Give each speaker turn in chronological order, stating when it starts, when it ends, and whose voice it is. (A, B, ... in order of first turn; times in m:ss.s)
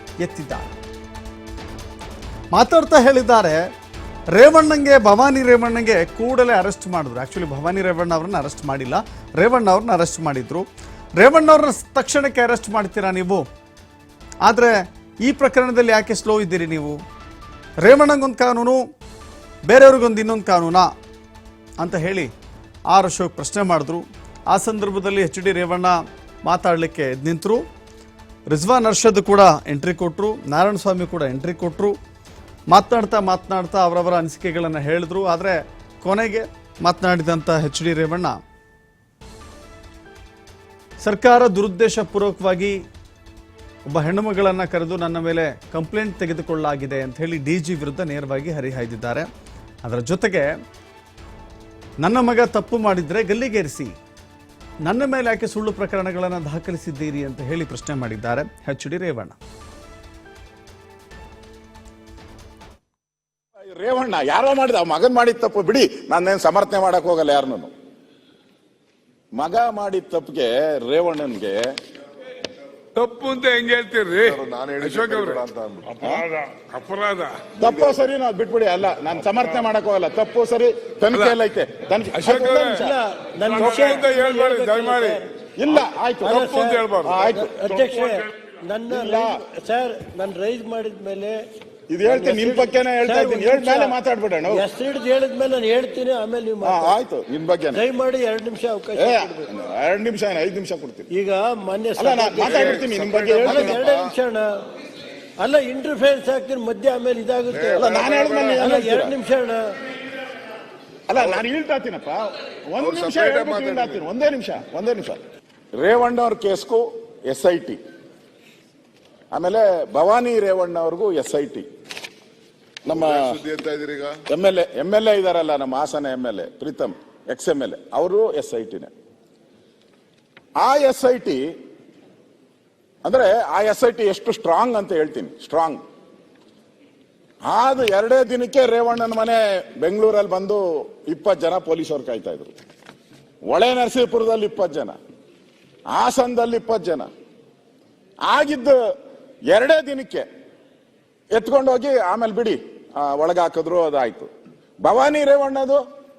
0:00.2-0:00.7 A
0:02.5-0:03.6 A
0:04.3-0:10.6 A
0:11.2-0:13.4 A
0:14.4-0:17.0 A
0:17.8-0:18.8 A
0:19.7-0:20.9 A
0:21.8-0:22.3 A
0:22.9-0:27.6 A
0:28.5-0:32.0 A
0:32.7-0:38.4 A
0:41.0-0:42.8 A
0:43.9-0:49.3 A
0:49.8-0:50.5 A
0:52.0-0:53.9 A
0:54.9-0:59.4 A
1:03.6-1:07.7 B
1:09.4-1:11.7 B
1:12.9-1:17.6 C
1:14.2-1:16.0 D
1:17.6-1:22.9 B
1:17.6-1:18.0 D
1:22.2-1:22.8 C
1:22.4-1:25.3 E
1:23.5-1:25.2 C
1:23.6-1:24.0 B
1:25.6-1:26.5 B
1:26.2-1:31.3 E
1:26.4-1:27.2 C
1:27.0-1:27.8 B
1:28.9-1:29.4 B
1:31.9-1:34.6 B
1:32.0-1:33.9 E
1:34.5-1:36.9 E
1:36.6-1:37.8 B
1:37.7-1:39.5 E
1:39.0-1:41.1 B
1:41.1-1:44.5 E
1:42.0-1:43.8 B
1:42.4-1:44.1 D
1:45.4-1:47.9 E
1:47.5-1:48.6 D
1:47.7-1:49.1 B
1:48.6-1:49.6 E
1:51.1-1:55.2 B
1:52.8-1:54.0 D
1:55.8-1:57.8 B
1:59.3-2:01.7 B
2:02.8-2:03.4 B
2:02.9-2:04.2 D
2:04.3-2:08.9 B
2:10.6-2:11.4 B
2:13.0-2:15.8 B
2:17.5-2:22.5 B
2:23.5-2:25.0 B
2:25.9-2:27.1 B
2:28.2-2:28.8 B
2:29.5-2:30.2 B
2:31.3-2:34.3 B
2:34.8-2:35.8 B